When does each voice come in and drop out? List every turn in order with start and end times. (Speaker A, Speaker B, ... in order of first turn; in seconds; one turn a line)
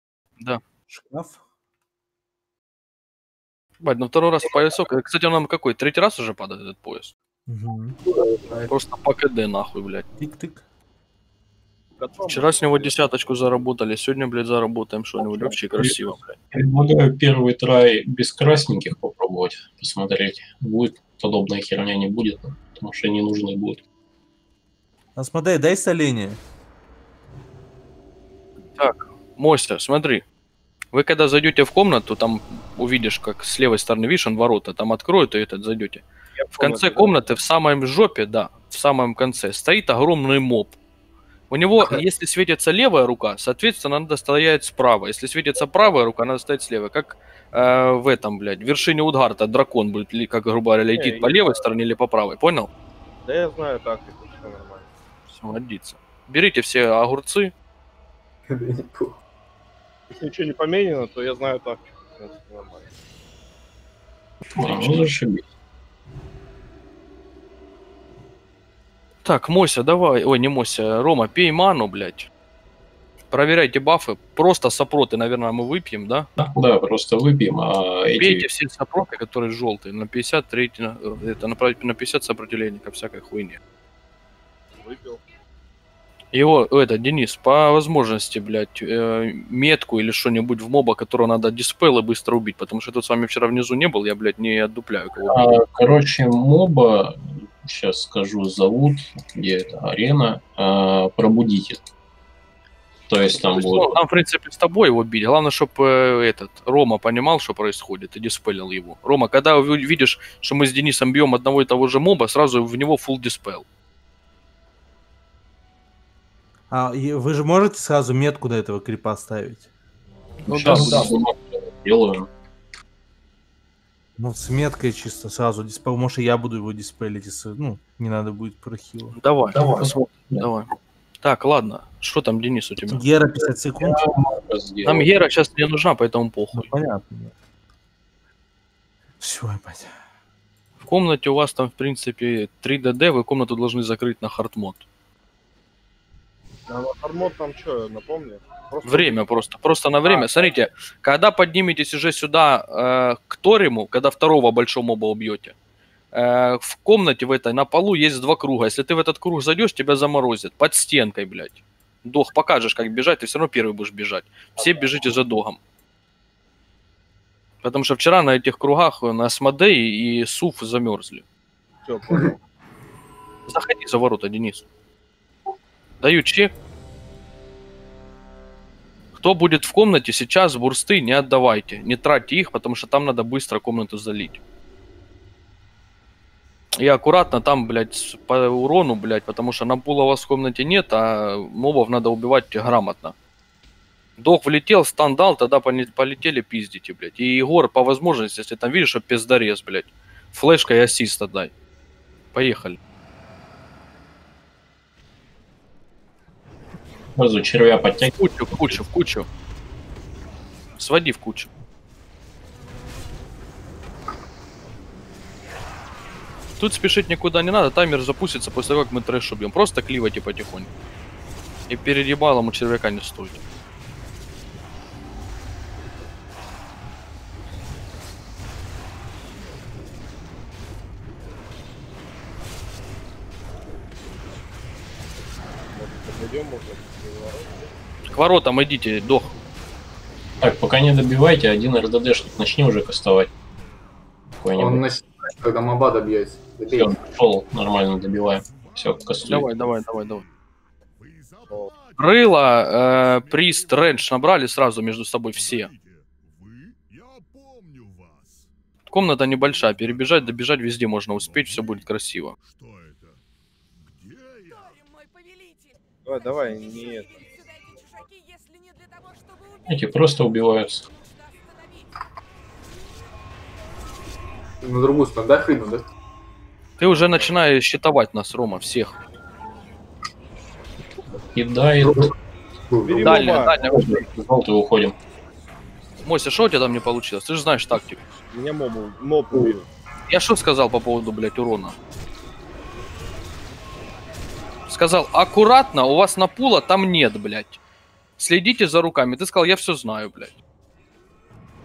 Speaker A: 0.9-1.4
Speaker B: 3.8-7.1
Speaker A: 7.5-8.0
Speaker C: 8.1-8.7
Speaker B: 8.7-10.0
Speaker A: 10.2-10.6
Speaker D: 12.0-13.3
Speaker B: 12.2-16.3
Speaker E: 15.8-23.8
Speaker A: 25.1-26.4
Speaker B: 28.8-30.2
Speaker B: 30.9-40.7
Speaker D: 36.4-37.2
Speaker B: 41.5-52.7
Speaker D: 50.9-51.6
Speaker D: 53.2-54.9
Speaker B: 55.3-57.5
Speaker C: 58.5-59.2
Speaker D: 60.1-63.0
Speaker E: 64.5-65.5
Speaker B: 69.2-72.3
Speaker B: 73.3-76.3
Speaker E: 76.4-78.5
Speaker B: 78.2-83.6
Speaker D: 84.8-85.3
Speaker B: 86.3-95.6
Speaker E: 95.3-101.8
Speaker E: 103.1-104.0
Speaker B: 103.5-113.6
Speaker A: 116.7-119.7
Speaker B: 120.5-121.1
Speaker E: 120.5-122.3
Speaker A: 120.6-120.9
Speaker A: 124.2-129.2
Speaker B: 129.1-130.7
Speaker E: 129.5-130.5
Speaker B: 131.2-133.0
Speaker A: 132.9-134.0
Speaker E: 133.8-135.1
Speaker B: 134.8-136.7
Speaker A: 136.5-137.3
Speaker A: 139.2-139.9
Speaker B: 140.8-144.8
Speaker D: 146.7-149.4
Speaker B: 148.8-155.5
Speaker D: 150.0-150.5
Speaker B: 156.1-165.6
Speaker B: 167.6-171.2
Speaker D: 171.8-172.4
Speaker B: 173.5-174.7
Speaker B: 176.0-176.5
Speaker B: 179.2-184.4
Speaker B: 186.8-193.1
Speaker B: 194.2-201.5
Speaker B: 202.3-202.8
Speaker E: 207.2-208.8
Speaker B: 208.2-209.3
Speaker B: 210.8-211.5
Speaker B: 216.6-220.7
Speaker B: 221.7-223.4
Speaker D: 235.7-237.7
Speaker B: 238.1-239.3
Speaker E: 240.4-243.3
Speaker E: 244.4-244.8
Speaker C: 244.6-246.9
Speaker E: 246.7-249.5
Speaker B: 249.3-250.2
Speaker D: 251.5-251.7
Speaker B: 251.9-255.7
Speaker B: 258.9-262.4
Speaker D: 266.0-267.3
Speaker E: 269.7-270.9
Speaker C: 274.6-275.9
Speaker B: 276.8-278.9
Speaker D: 276.9-277.4
Speaker E: 281.3-282.1
Speaker C: 281.8-282.1
Speaker C: 282.7-283.1
Speaker D: 282.8-283.7
Speaker B: 283.0-284.0
Speaker E: 283.6-284.9
Speaker B: 286.0-288.0
Speaker D: 288.3-289.7
Speaker B: 290.1-291.8
Speaker B: 294.7-297.6
Speaker B: 298.2-300.4